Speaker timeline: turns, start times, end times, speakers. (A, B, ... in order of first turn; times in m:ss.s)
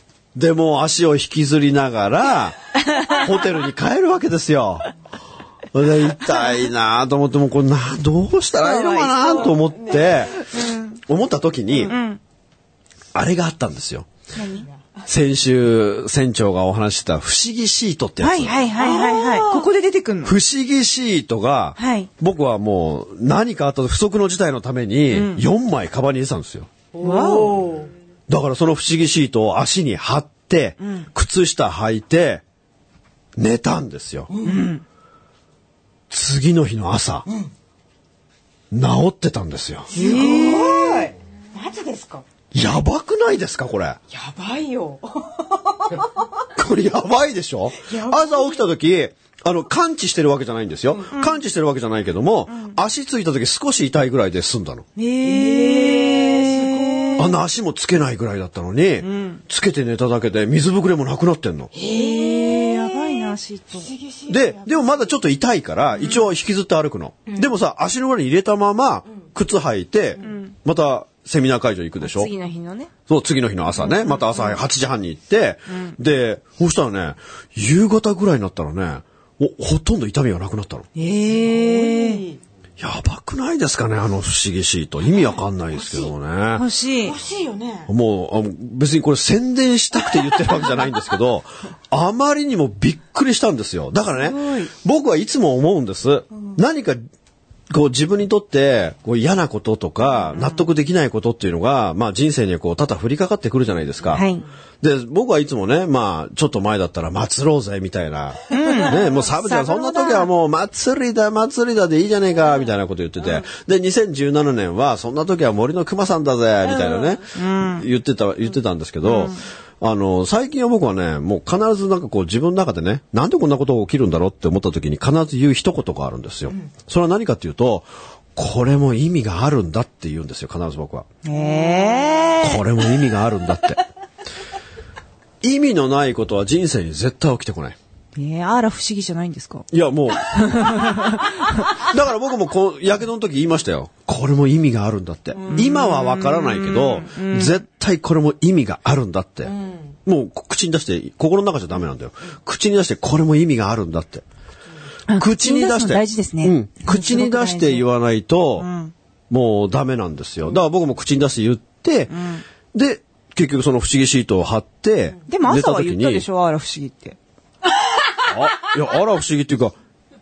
0:00.3-0:04.9 A
0:05.7-0:10.4 A
0:08.6-0:09.6 B
0:09.2-0:10.3 C
0:10.5-0:10.9 B
0:11.0-0:11.9 A
0:11.8-0:12.2 B
0:13.1-0:14.1 A
0:14.3-0:14.7 B
0:15.1-0:18.6 A
0:18.2-0:20.4 B
0:18.7-0:19.7 C
0:20.2-0:26.7 A
0:21.8-0:22.1 B
0:25.1-0:25.4 B
0:26.9-0:27.9 C
0:27.0-0:27.7 B
0:28.3-0:32.4 A
0:30.8-0:31.1 B
0:33.4-0:34.3 A
0:34.3-0:34.7 C
0:34.4-0:34.8 B
0:36.1-0:37.3 A
0:38.7-0:39.9 A
0:39.9-0:42.2 C
0:39.9-0:41.1 B
0:42.5-0:44.0 A
0:44.1-0:46.3 C
0:46.6-0:54.8 A
0:47.8-0:48.6 C
0:52.5-0:52.8 B
0:55.0-0:57.3 B
0:55.2-0:57.3 C
0:57.2-1:01.7 A
0:59.0-0:59.4 B
1:01.7-1:05.1 C
1:01.8-1:03.9 B
1:04.3-1:12.3 A
1:06.0-1:06.2 B
1:10.2-1:10.5 B
1:12.0-1:12.9 B
1:13.1-1:20.8 A
1:13.9-1:14.5 B
1:21.0-1:22.2 B
1:21.3-1:22.4 C
1:22.8-1:26.6 A
1:25.7-1:26.1 C
1:26.5-1:27.2 B
1:27.0-1:27.9 C
1:27.9-1:37.0 A
1:34.2-1:34.7 B
1:37.7-1:44.2 A
1:40.2-1:40.6 B
1:44.1-1:44.5 C
1:44.1-1:44.4 B
1:44.8-2:11.0 A
1:48.5-1:50.3 B
1:48.5-1:49.1 C
1:56.6-1:57.2 C
1:57.3-1:57.8 B
1:59.0-1:59.4 B
2:11.2-2:12.6 B
2:11.3-2:12.3 C
2:12.4-2:13.8 A
2:15.4-2:17.8 A
2:18.2-2:21.8 B
2:19.7-2:21.0 A
2:21.7-2:29.5 A
2:25.3-2:25.7 C
2:25.5-2:27.6 B
2:29.4-2:29.9 C
2:30.0-2:34.2 A
2:35.1-2:37.9 B
2:35.1-2:38.7 A
2:38.6-2:38.9 B
2:39.3-2:42.1 A
2:42.1-2:42.4 B
2:42.7-2:46.2 A
2:45.3-2:47.2 B
2:48.2-2:49.8 A